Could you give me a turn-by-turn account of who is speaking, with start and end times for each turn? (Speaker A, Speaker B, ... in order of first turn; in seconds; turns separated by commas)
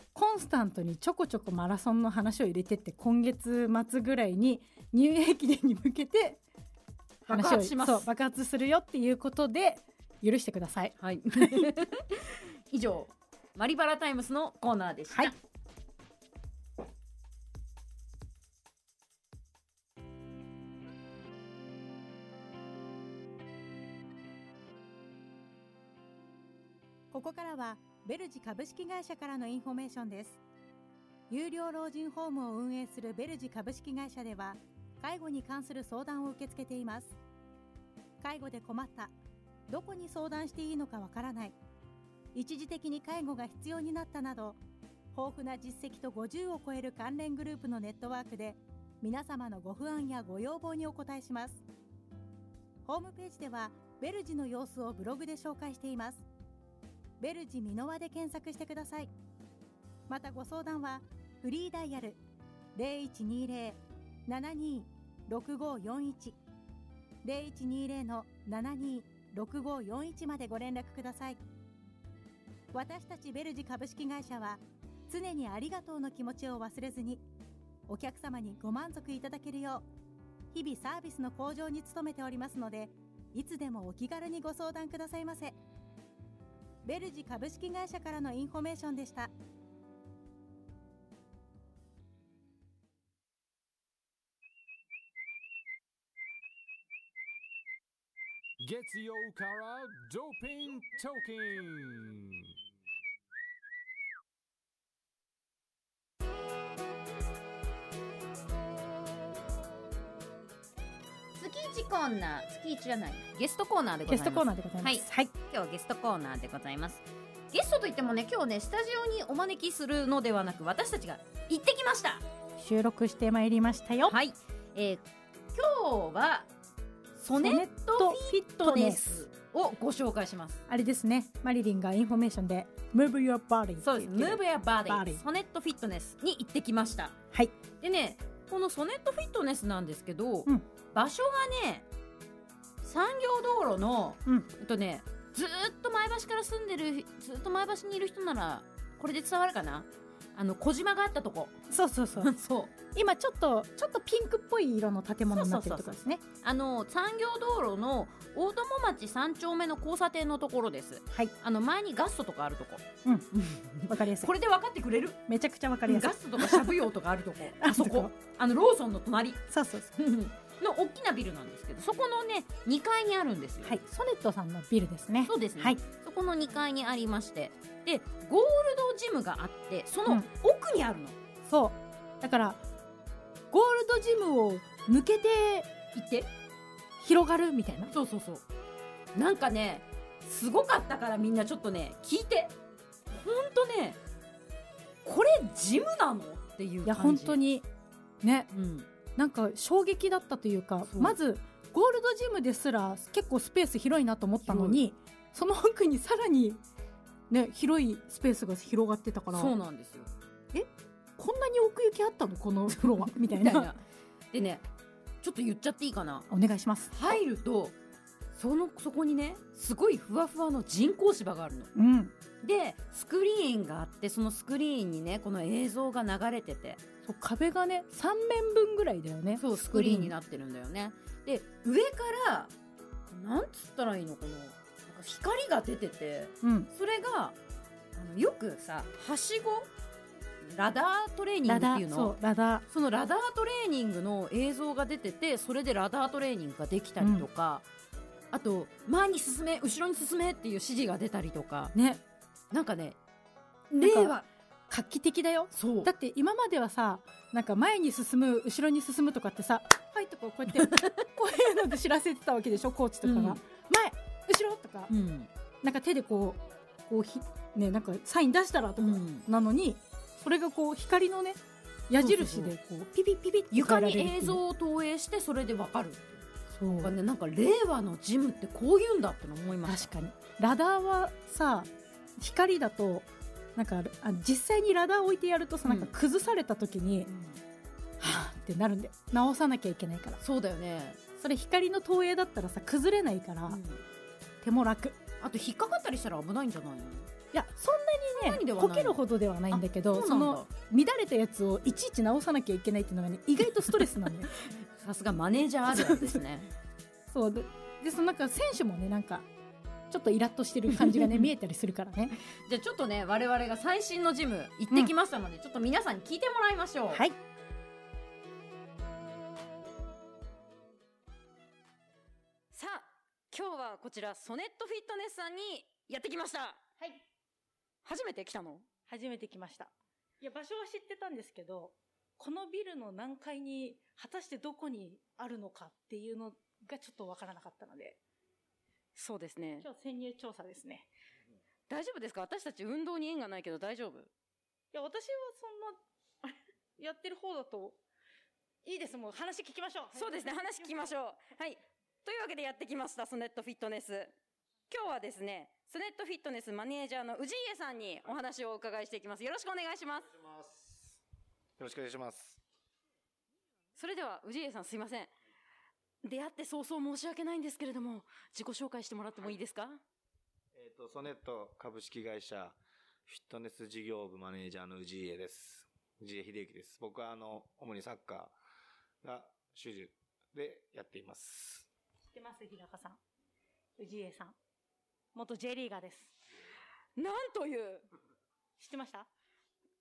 Speaker A: 0.1-6.4, Speaker B: 7.2-8.1, Speaker A: 7.3-11.7, Speaker B: 11.0-15.3, Speaker A: 27.1-30.4, Speaker A: 31.3-37.2, Speaker A: 38.2-39.1, Speaker A: 39.7-41.6, Speaker A: 42.3-44.6, Speaker A: 45.1-51.6, Speaker A: 52.8-56.2, Speaker A: 57.2-59.1, Speaker A: 60.1-62.2, Speaker A: 62.7-66.4, Speaker A: 67.2-71.4, Speaker A: 72.7-77.2, Speaker A: 77.9-79.8, Speaker A: 80.5-85.6, Speaker A: 86.8-89.3, Speaker C: 98.6-102.5, Speaker B: 111.4-122.2, Speaker A: 114.1-115.3, Speaker A: 122.6-124.2, Speaker B: 124.0-126.5, Speaker B: 127.2-130.6, Speaker A: 127.3-129.0, Speaker A: 130.7-135.2, Speaker B: 133.8-137.2, Speaker B: 137.8-141.8, Speaker B: 142.8-151.6, Speaker A: 151.7-152.3, Speaker B: 152.2-152.7, Speaker A: 152.9-156.2, Speaker B: 155.3-165.2, Speaker A: 163.9-164.3, Speaker A: 165.3-166.8, Speaker B: 165.8-173.8, Speaker A: 167.6-168.1, Speaker A: 169.5-169.9, Speaker A: 173.6-175.8, Speaker B: 175.2-181.2, Speaker A: 181.4-182.6, Speaker A: 183.5-185.7, Speaker B: 185.9-186.3, Speaker A: 187.0-187.9, Speaker B: 187.9-188.4, Speaker B: 189.1-192.5, Speaker B: 193.1-194.0, Speaker B: 195.0-197.4, Speaker A: 196.8-197.7, Speaker A: 198.2-198.5, Speaker B: 198.5-198.9, Speaker A: 199.2-206.6, Speaker B: 200.8-201.2, Speaker B: 204.4-204.8, Speaker A: 207.3-209.5, Speaker B: 209.3-210.1, Speaker A: 210.5-213.7, Speaker B: 212.8-214.6, Speaker B: 215.2-216.3, Speaker A: 216.3-217.2, Speaker B: 216.9-217.8, Speaker B: 218.3-221.7, Speaker A: 221.7-222.2, Speaker B: 222.4-226.8, Speaker A: 227.0-230.1, Speaker B: 229.3-232.5, Speaker B: 233.1-237.4, Speaker A: 236.4-236.7, Speaker B: 237.9-239.7, Speaker B: 240.4-242.2, Speaker A: 241.4-242.6, Speaker B: 242.7-247.7, Speaker A: 247.0-247.2, Speaker B: 248.3-251.7, Speaker A: 251.7-252.0, Speaker B: 252.5-253.0, Speaker B: 253.7-254.3, Speaker A: 253.8-254.1, Speaker A: 254.7-264.9, Speaker B: 255.5-255.9, Speaker B: 260.5-261.0, Speaker B: 263.0-263.4, Speaker B: 264.9-265.3, Speaker A: 265.6-274.4, Speaker B: 268.8-269.3, Speaker B: 272.0-272.5, Speaker B: 273.5-276.2, Speaker A: 276.5-276.9, Speaker B: 276.8-279.9, Speaker A: 279.6-287.1, Speaker B: 285.6-285.9, Speaker B: 287.1-287.4, Speaker A: 288.0-290.2, Speaker B: 290.2-291.0, Speaker A: 291.2-293.6, Speaker B: 293.5-293.8, Speaker A: 294.4-295.0, Speaker B: 295.2-297.1, Speaker A: 297.3-304.3, Speaker B: 298.1-300.5, Speaker B: 304.4-306.5, Speaker A: 305.7-306.2, Speaker A: 307.1-309.3, Speaker A: 309.9-312.1, Speaker B: 310.9-311.3, Speaker B: 312.3-317.0, Speaker A: 316.9-317.2, Speaker D: 322.5-326.7, Speaker D: 327.8-328.7, Speaker E: 328.9-338.0, Speaker D: 338.9-339.7, Speaker E: 339.6-340.9, Speaker D: 341.7-344.1, Speaker E: 344.7-347.8, Speaker E: 348.6-351.0, Speaker D: 349.9-354.1, Speaker D: 354.7-360.1, Speaker F: 360.1-361.0, Speaker F: 361.6-362.4, Speaker D: 363.8-365.1, Speaker D: 366.0-369.8, Speaker F: 370.5-378.4, Speaker F: 379.0-381.7, Speaker E: 382.0-383.0, Speaker E: 383.8-384.4, Speaker E: 385.1-386.1, Speaker D: 386.9-387.9, Speaker E: 388.6-389.1